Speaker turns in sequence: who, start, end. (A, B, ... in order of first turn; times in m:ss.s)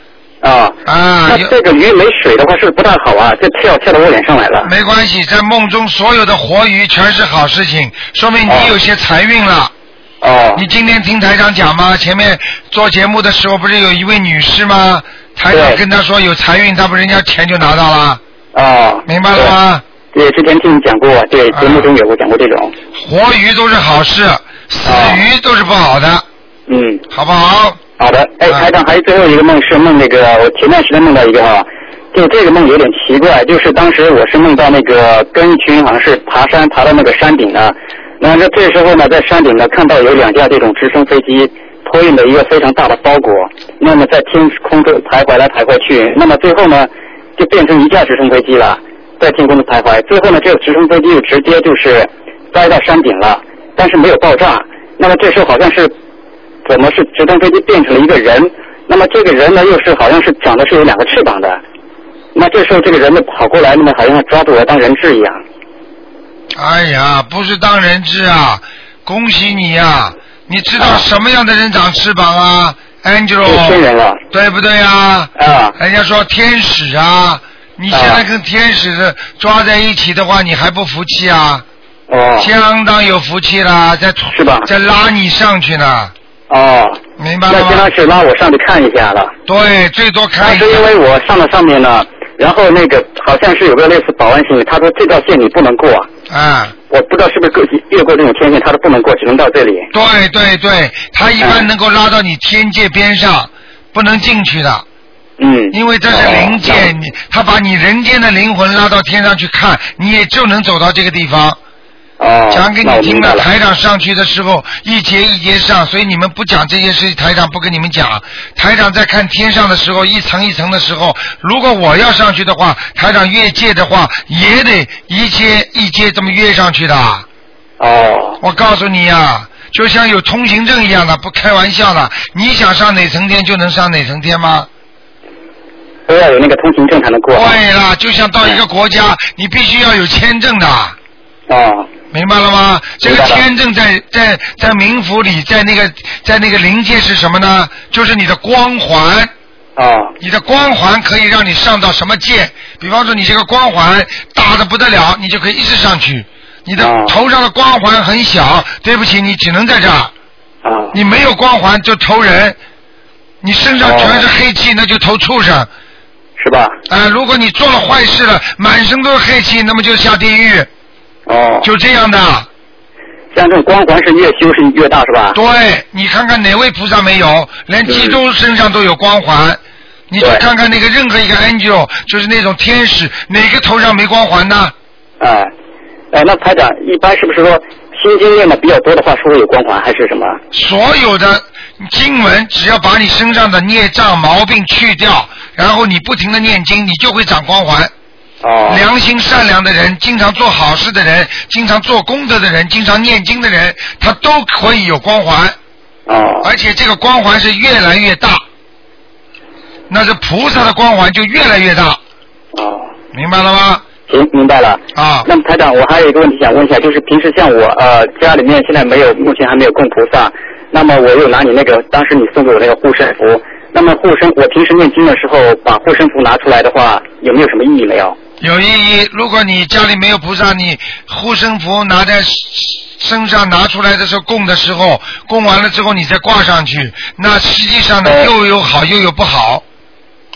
0:00.4-0:04.7 A
0:00.9-0:01.5 B
0:04.6-0:09.7 B
0:08.5-0:08.7 A
0:10.2-0:10.6 A
0:10.6-0:18.2 B
0:15.5-0:15.8 A
0:18.5-0:19.6 A
0:19.1-0:19.8 B
0:20.1-0:22.7 A
0:21.5-0:21.9 B
0:23.0-0:26.2 B
0:24.9-0:25.2 A
0:26.7-0:27.0 A
0:27.1-0:27.8 B
0:28.0-0:55.9 A
0:56.6-1:01.6 A
1:02.4-1:05.4 A
1:06.6-1:21.6 B
1:10.8-1:11.0 A
1:13.4-1:14.2 A
1:15.4-1:15.8 A
1:17.9-1:18.2 A
1:22.1-1:22.5 A
1:22.4-1:26.1 B
1:24.3-1:24.7 A
1:26.5-1:29.4 A
1:27.2-1:27.9 B
1:29.5-1:30.9 B
1:30.4-1:36.1 A
1:36.3-1:36.8 B
1:36.9-1:39.9 A
1:39.9-1:44.8 B
1:41.4-1:41.7 A
1:45.4-1:46.9 A
1:45.7-1:51.6 B
1:52.2-1:53.5 A
1:52.5-2:07.2 B
2:07.8-2:08.4 A
2:08.4-2:14.7 B
2:16.1-2:17.6 A
2:17.3-2:21.0 B
2:21.5-2:21.9 A
2:22.1-2:29.3 B
2:23.0-2:23.4 A
2:29.8-2:30.1 A
2:30.2-2:40.1 B
2:36.8-2:37.2 A
2:40.6-2:41.0 A
2:40.9-2:42.6 B
2:43.4-2:45.7 B
2:43.8-2:44.3 A
2:46.4-2:46.8 A
2:46.9-2:50.7 B
2:51.3-2:51.7 A
2:51.6-2:52.5 B
2:53.3-2:55.4 A
2:55.3-3:04.7 B
2:57.9-2:58.2 A
3:05.2-3:05.5 A
3:06.1-3:10.4 A
3:10.5-3:17.9 B
3:18.4-3:18.8 A
3:18.7-3:25.6 B
3:26.1-3:26.5 A
3:26.4-3:28.4 B
3:29.9-3:32.0 B
3:32.6-3:32.9 A
3:33.1-3:33.9 B
3:34.1-3:48.2 A
3:35.0-3:35.3 B
3:48.4-3:59.6 B
3:58.0-3:58.3 A